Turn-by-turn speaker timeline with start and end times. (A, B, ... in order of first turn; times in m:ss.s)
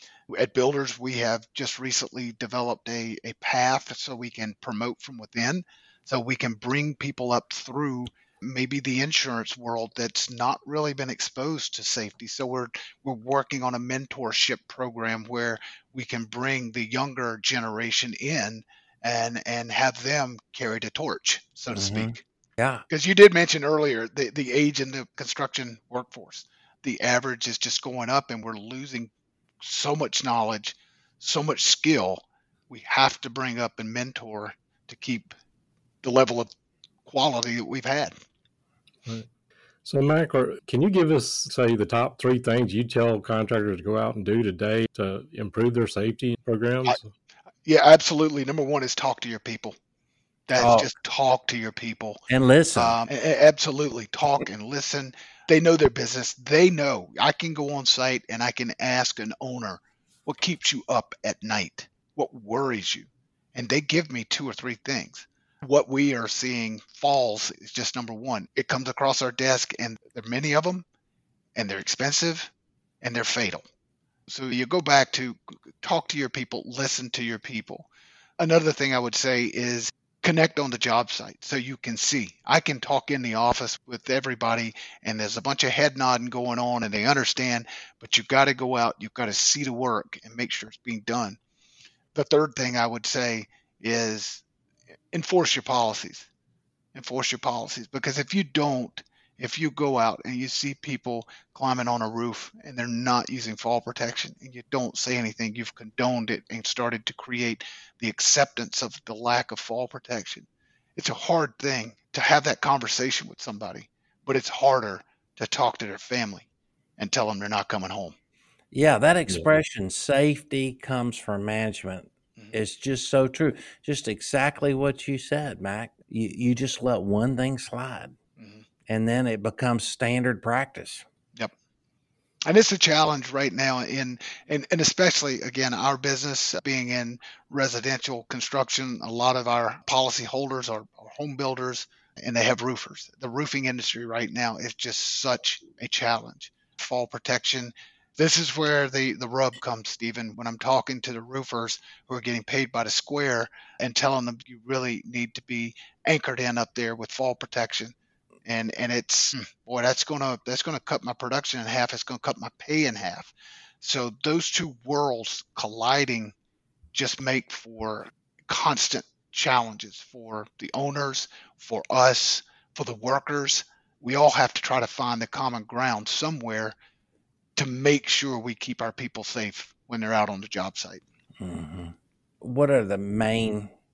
0:00.3-0:22.2 A
0:21.7-0:22.8 B
0:22.9-0:29.1 A
0:29.6-0:35.3 A
0:36.0-0:36.5 A
0:37.0-0:38.1 A
0:39.8-0:47.1 C
0:47.6-0:49.7 A
0:50.5-0:52.2 A
0:50.6-0:50.9 B
0:52.3-0:53.0 B
0:52.8-1:10.8 A
1:11.5-1:12.5 A
1:13.0-1:13.6 A
1:14.3-1:31.4 A
1:32.1-1:34.4 A
1:35.1-1:36.3 A
1:36.9-1:56.5 A
1:57.0-1:58.2 A
1:58.7-2:08.1 B
2:08.4-2:08.6 A
2:08.9-2:11.0 B
2:12.4-2:37.9 A
2:38.4-2:46.3 A
2:46.9-2:56.7 A
2:57.6-3:01.0 A
3:01.4-3:03.7 B